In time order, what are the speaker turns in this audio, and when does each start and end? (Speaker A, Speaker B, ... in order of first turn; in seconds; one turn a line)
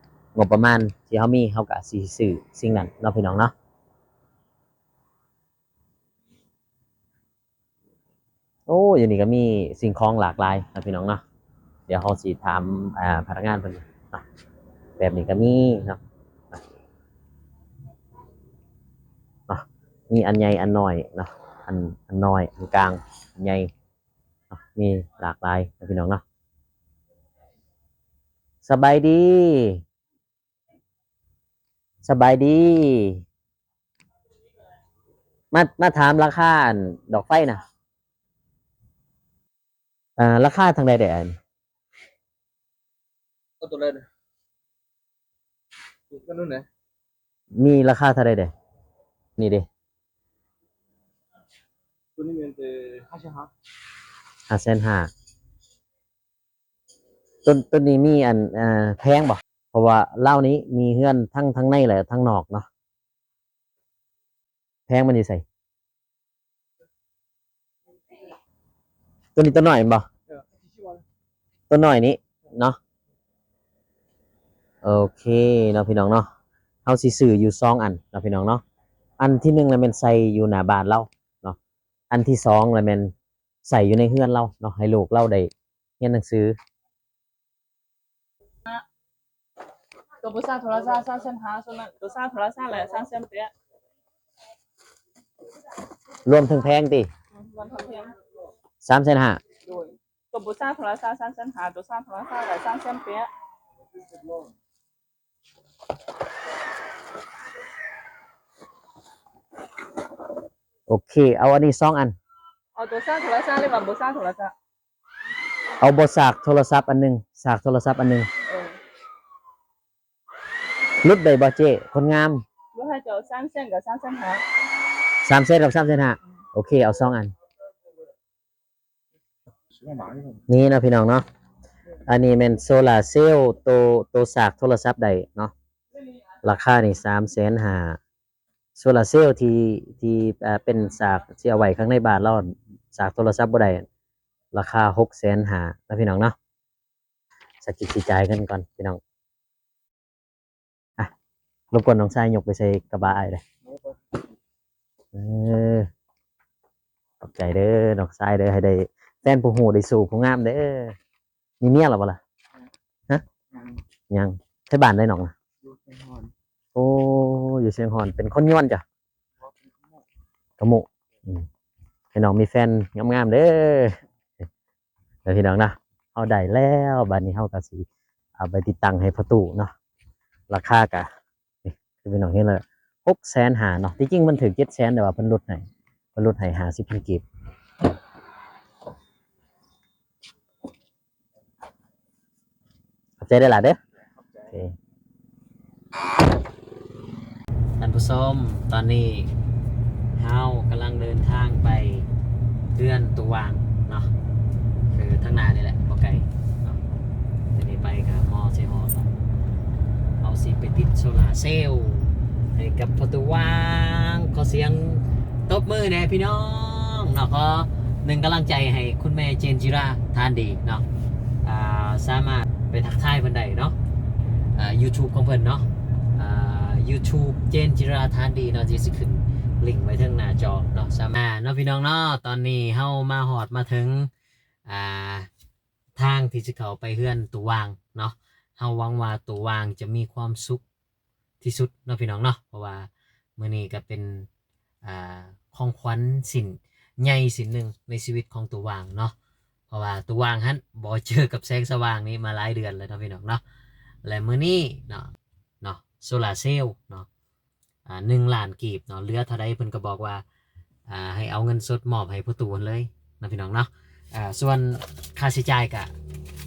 Speaker A: 0.3-3.5
Speaker A: 8.7-11.2
Speaker A: 11.9-14.2
Speaker A: 15.0-16.0
Speaker A: 19.5-23.7
Speaker A: 24.5-26.2
Speaker A: 28.6-29.8
Speaker A: 32.0-33.2
Speaker A: 35.5-37.6
Speaker A: 40.2-41.4
Speaker B: 43.6-44.0
Speaker B: 46.1-46.7
Speaker A: 47.5-48.5
Speaker A: 49.4-49.7
Speaker B: 52.2-53.5
Speaker A: 54.5-55.1
Speaker A: 57.5-62.7
Speaker A: 64.9-65.4
Speaker A: 69.4-70.1
Speaker B: 70.3-71.0
Speaker A: 71.7-72.8
Speaker A: 74.8-76.3
Speaker A: 76.8-78.6
Speaker A: 79.2-81.6
Speaker A: 82.1-83.1
Speaker A: 83.6-86.6
Speaker C: 90.2-93.5
Speaker A: 96.2-97.1
Speaker C: 97.3-98.2
Speaker A: 98.8-99.4
Speaker C: 99.6-103.3
Speaker A: 110.9-112.2
Speaker C: 112.8-114.5
Speaker A: 115.8-118.3
Speaker C: 118.5-118.8
Speaker A: 121.0-122.4
Speaker C: 122.7-124.4
Speaker A: 125.2-127.3
Speaker B: 129.7-130.4
Speaker A: 130.5-131.2
Speaker A: 132.1-135.5
Speaker A: 136.4-138.0
Speaker A: 138.8-143.9
Speaker A: 144.5-146.4
Speaker A: 147.6-149.0
Speaker A: 151.7-153.4
Speaker A: 155.1-155.9
Speaker A: 157.2-161.0
Speaker A: 161.6-162.2
Speaker A: 164.1-165.3
Speaker B: 165.6-166.3
Speaker A: 166.8-168.8
Speaker B: 169.4-170.0
Speaker A: 170.6-171.5
Speaker A: 172.1-174.0
Speaker A: 175.2-177.9
Speaker A: 178.4-179.7
Speaker A: 180.5-181.1
Speaker A: 181.7-187.2
Speaker A: 193.2-193.8
Speaker A: 194.4-194.8
Speaker A: 197.8-199.3
Speaker A: 200.2-202.1
Speaker A: 202.8-204.1
Speaker A: 204.9-206.8
Speaker A: 207.6-209.1
Speaker A: 210.2-220.8
Speaker A: 221.4-223.8
Speaker A: 224.6-234.1
Speaker A: 234.7-235.3
Speaker A: 235.9-240.6
Speaker A: 241.4-244.3
Speaker A: 244.8-249.2
Speaker A: 249.7-253.4
Speaker A: 254.0-257.1
Speaker A: 257.9-260.2
Speaker A: 260.9-265.9